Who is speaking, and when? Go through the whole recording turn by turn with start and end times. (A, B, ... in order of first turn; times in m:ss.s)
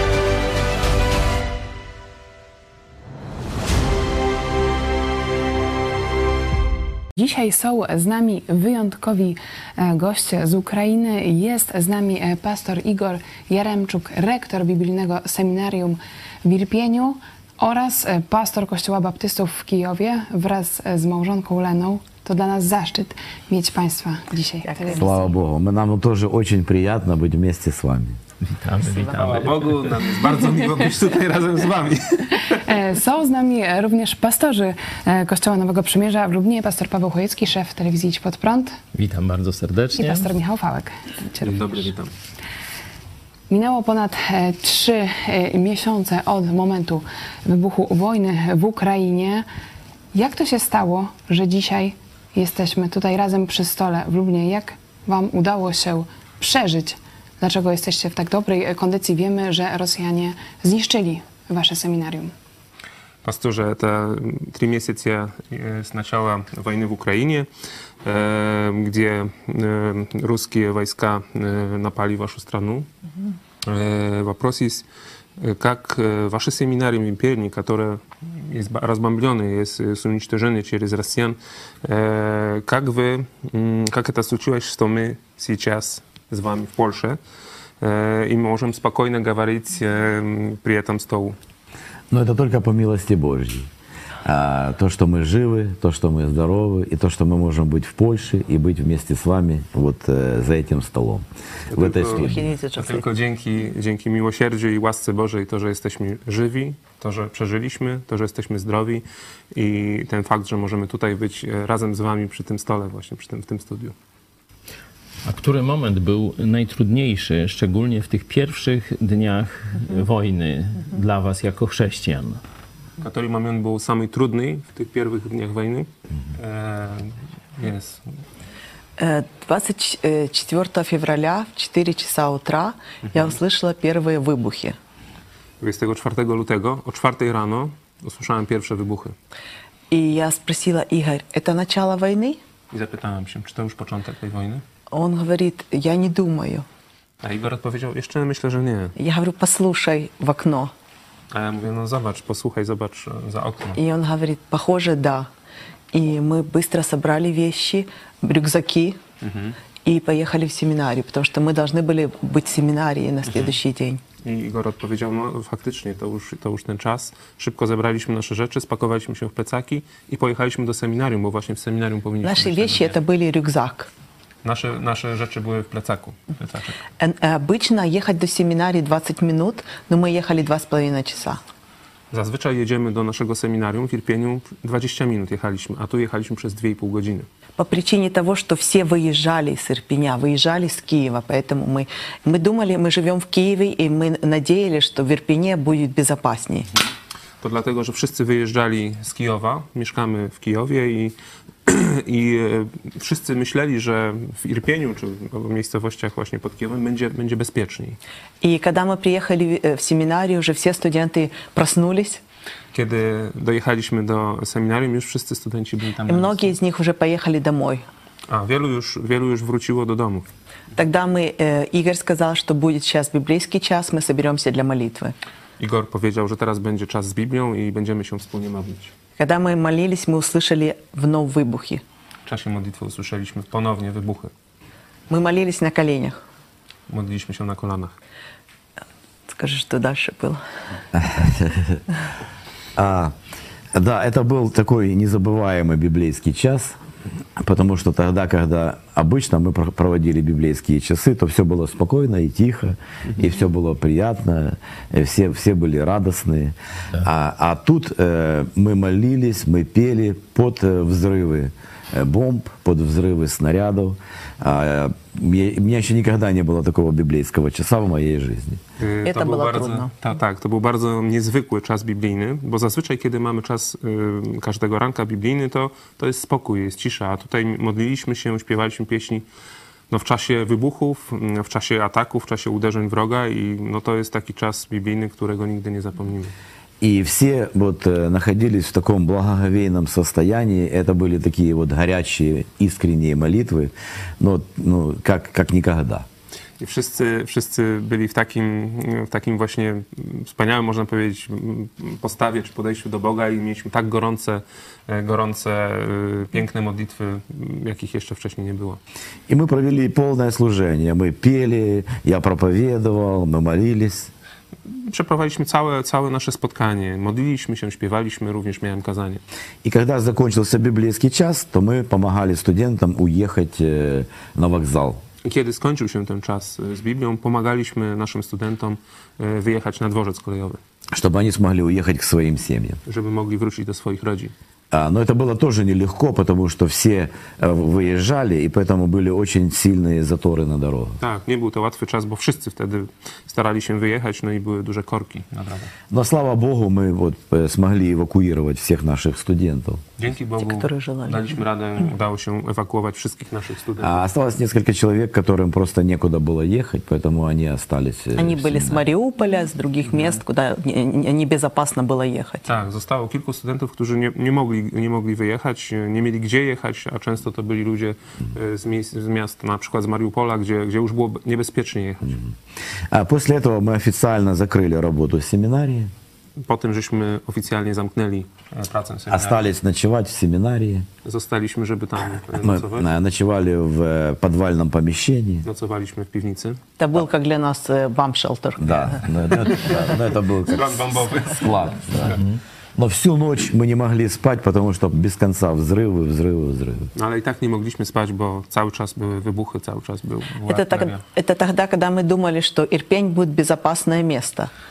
0:07.2-0:25.0 A
0:24.6-0:25.3 B
0:25.0-0:28.2 C
0:28.4-0:29.9 D
0:28.8-0:29.4 B
0:29.2-0:32.5 E
0:32.5-0:38.8 A
0:38.9-0:40.3 D
0:40.0-0:41.9 A
0:41.4-0:42.1 E
0:43.5-0:49.5 A
0:50.1-1:02.3 A
1:03.2-1:07.5 E
1:08.0-1:12.9 E
1:13.6-1:14.8 E
1:15.4-1:27.2 E
1:27.8-1:31.4 E
1:32.1-1:33.7 C
1:34.2-1:42.4 C
1:41.7-1:53.9 E
1:42.1-1:43.1 B
1:55.2-2:02.4 D
2:03.0-2:08.0 E
2:09.0-2:14.8 B
2:13.1-2:13.4 E
2:15.6-2:19.2 E
2:19.9-2:22.4 B
2:22.7-2:24.6 E
2:24.9-2:26.7 B
2:27.2-2:28.9 E
2:29.0-2:30.7 B
2:31.3-2:33.8 E
2:33.8-2:35.3 B
2:35.9-2:39.0 B
2:39.2-2:39.6 E
2:39.8-2:44.0 B
2:43.3-2:43.6 E
2:44.2-2:53.0 E
2:52.2-2:53.9 B
2:54.4-2:56.8 E
2:57.0-3:01.4 B
3:02.1-3:07.3 E
3:07.6-3:16.7 B
3:17.4-3:21.2 E
3:21.7-3:28.0 E
3:28.4-3:32.2 B
3:32.7-3:36.5 E
3:36.1-3:37.8 B
3:38.3-3:40.3 E
3:40.8-3:45.2 B
3:45.6-3:48.9 E
3:49.2-3:51.8 B
3:52.3-3:54.3 E
3:55.1-3:56.2 B
3:56.9-3:58.0 E
3:59.3-4:00.4 B
4:00.9-4:01.8 C
4:02.8-4:03.1 C
4:03.7-4:06.8 C
4:07.4-4:28.6 C
4:28.8-4:39.2 E
4:29.0-4:29.9 B
4:39.9-4:46.3 E
4:46.8-4:56.1 C
4:56.6-5:08.8 E
5:09.3-5:14.1 C
5:14.7-5:19.2 E
5:19.6-5:25.0 C
5:25.2-5:30.6 E
5:30.9-5:32.8 C
5:32.9-5:34.3 E
5:34.7-5:41.0 C
5:41.0-5:45.7 E
5:45.9-5:49.8 C
5:50.0-5:54.0 E
5:50.4-5:51.4 B
5:53.8-5:58.8 C
5:58.2-6:02.4 B
5:59.9-6:00.2 E
6:02.4-6:12.2 E
6:12.9-6:15.9 C
6:16.4-6:19.4 E
6:19.1-6:20.9 C
6:21.0-6:22.9 E
6:22.4-6:25.5 C
6:25.4-6:26.6 E
6:26.8-6:29.0 B
6:28.6-6:30.7 C
6:30.5-6:32.2 E
6:31.4-6:32.2 C
6:32.8-6:36.9 C
6:37.0-6:41.0 E
6:40.4-6:44.5 B